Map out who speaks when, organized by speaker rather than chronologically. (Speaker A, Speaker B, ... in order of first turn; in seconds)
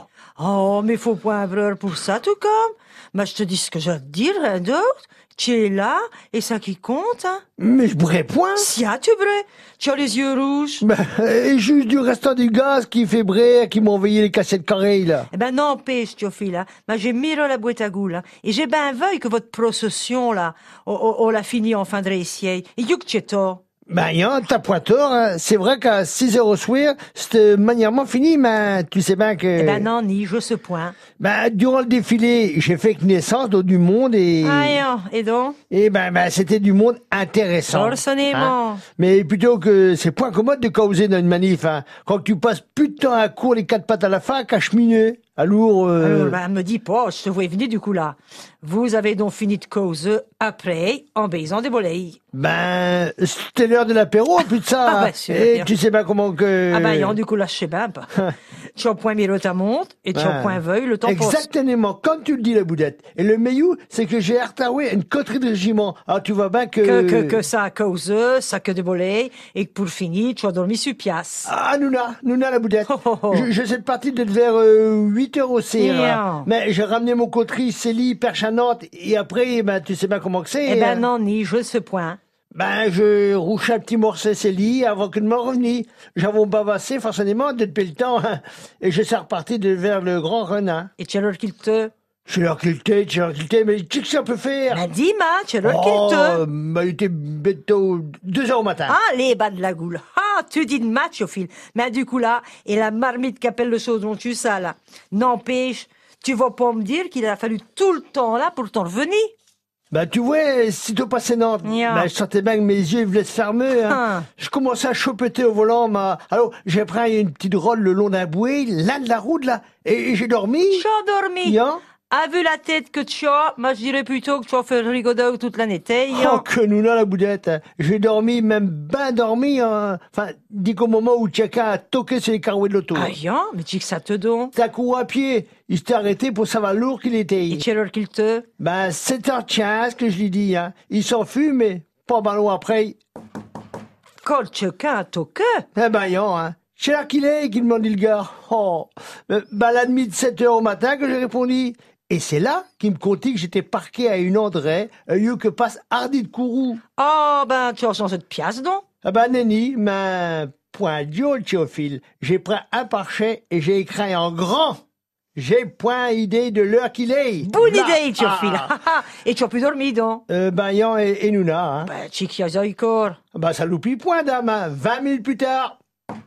Speaker A: 0.4-7.4, 8.6-10.8, 15.3-23.6, 29.6-31.0, 34.4-35.6, 37.7-38.8, 46.0-52.2, 54.8-55.7, 56.7-58.1, 58.8-61.5, 66.8-71.5, 72.9-73.5, 75.8-76.5, 80.7-82.2, 91.0-91.9, 94.7-96.4, 98.9-109.3, 111.6-112.1, 113.8-114.3, 120.7-121.6, 122.1-126.4, 132.9-134.5, 137.5-138.5, 144.2-145.6, 157.0-158.8, 167.4-170.2, 171.8-173.2
Speaker B: 7.6-8.7, 10.8-15.3, 23.9-29.9, 31.2-34.8, 35.7-46.4, 52.3-57.2, 60.1-67.4, 71.5-81.1, 82.5-90.9, 92.3-94.8, 95.6-99.0, 109.9-120.9, 121.4-121.8, 126.1-133.1, 134.6-137.6, 138.6-143.0, 145.8-156.8, 159.0-164.8, 165.3-168.8, 170.3-171.9, 173.3-175.8